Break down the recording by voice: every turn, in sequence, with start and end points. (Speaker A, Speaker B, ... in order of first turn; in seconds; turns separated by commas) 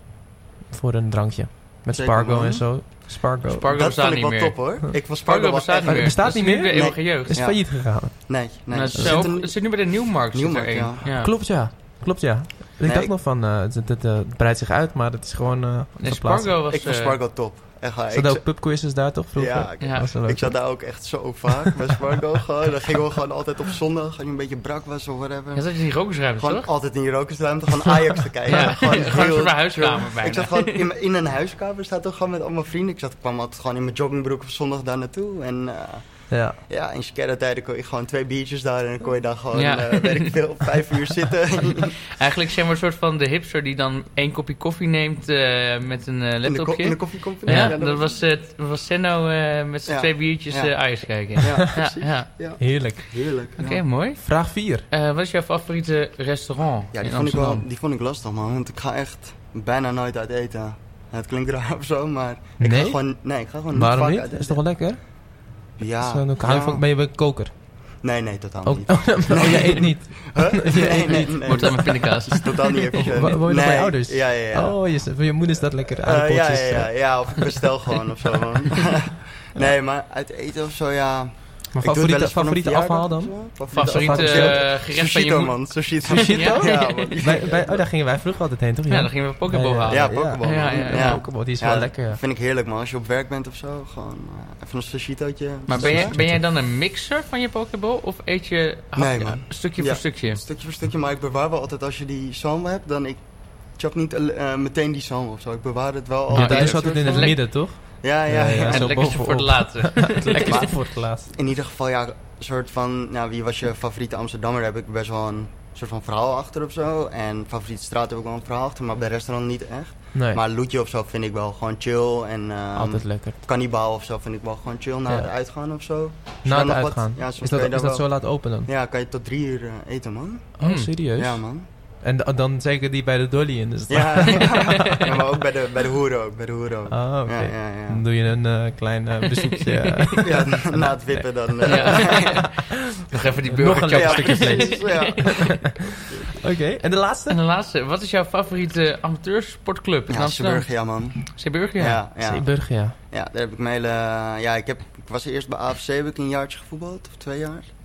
Speaker A: 0.7-3.7, Speaker B: 1.9-2.9, Speaker C: 3.5-7.4, Speaker B: 3.7-11.1, Speaker A: 5.8-8.3, Speaker C: 8.7-11.3, Speaker A: 8.9-9.3, Speaker A: 11.1-16.5, Speaker B: 12.8-13.1, Speaker C: 16.0-17.2, Speaker B: 16.7-42.0, Speaker A: 18.1-20.6, Speaker C: 19.8-20.1, Speaker C: 25.5-26.7, Speaker C: 28.5-30.8, Speaker A: 28.5-28.8, Speaker A: 36.3-36.6, Speaker C: 39.5-40.4, Speaker C: 41.6-52.3, Speaker B: 46.4-48.2, Speaker A: 47.5-47.7, Speaker B: 49.9-53.8, Speaker A: 52.6-53.1, Speaker C: 53.6-54.3, Speaker A: 54.2-54.8, Speaker C: 54.9-57.6, Speaker B: 56.9-64.8, Speaker A: 62.6-63.0, Speaker A: 63.7-65.0, Speaker B: 65.8-66.8, Speaker A: 66.0-67.5, Speaker B: 68.0-75.2, Speaker A: 68.6-72.0, Speaker C: 71.4-73.1, Speaker A: 73.0-76.9, Speaker B: 75.9-87.8, Speaker A: 81.7-84.6, Speaker C: 83.7-87.1, Speaker A: 86.1-92.2, Speaker C: 88.9-91.2, Speaker B: 89.9-96.1, Speaker C: 95.7-100.4, Speaker A: 95.7-96.4, Speaker B: 99.0-109.1, Speaker A: 106.3-111.3, Speaker C: 106.3-107.3, Speaker C: 108.7-110.7, Speaker B: 110.3-131.7, Speaker A: 120.1-120.4, Speaker A: 122.8-123.4, Speaker A: 126.4-128.7, Speaker A: 130.6-131.4, Speaker C: 130.6-130.9, Speaker A: 132.0-135.2, Speaker B: 133.9-138.0, Speaker C: 134.5-135.0, Speaker A: 136.9-142.7, Speaker C: 139.3-140.2, Speaker B: 140.2-142.5, Speaker C: 141.6-145.5, Speaker A: 143.5-145.7, Speaker B: 143.9-146.4, Speaker A: 146.3-147.4, Speaker C: 147.3-152.0, Speaker B: 150.1-157.7, Speaker A: 152.2-152.9